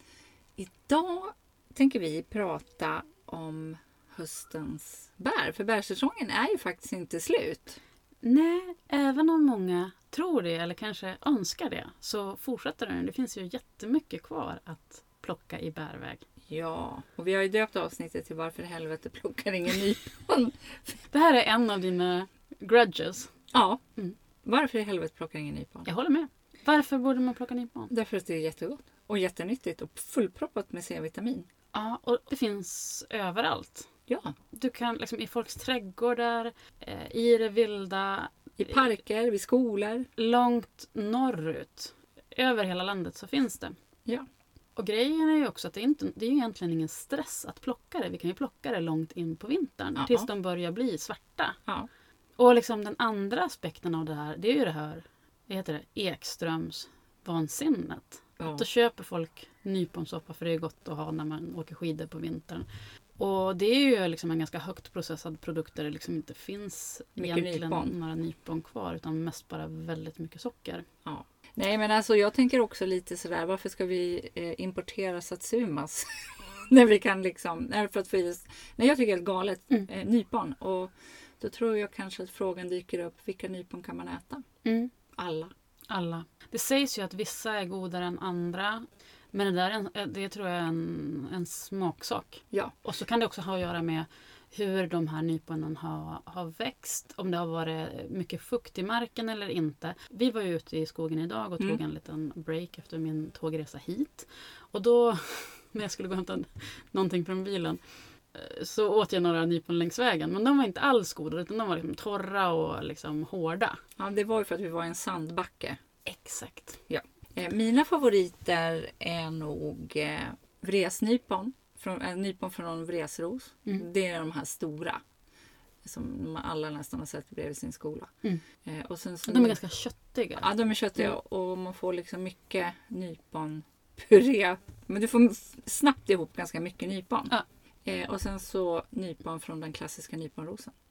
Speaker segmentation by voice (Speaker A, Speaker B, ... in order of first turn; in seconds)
Speaker A: 0.6-7.8, 16.5-21.0, 23.5-23.8, 24.4-25.9, 27.9-31.5, 34.1-34.4, 38.6-40.1, 50.0-50.3, 58.4-58.6, 67.2-67.9, 71.0-84.4, 85.2-85.5, 114.0-115.8, 116.9-125.0, 125.8-128.1, 128.6-129.6, 130.4-140.7
Speaker B: 8.2-16.2, 21.1-23.3, 25.9-27.9, 31.7-33.9, 34.5-39.0, 40.2-43.8, 44.8-51.6, 52.4-62.7, 63.2-70.8, 84.6-84.9, 85.9-107.8, 108.3-113.8, 116.0-116.8, 129.2-131.2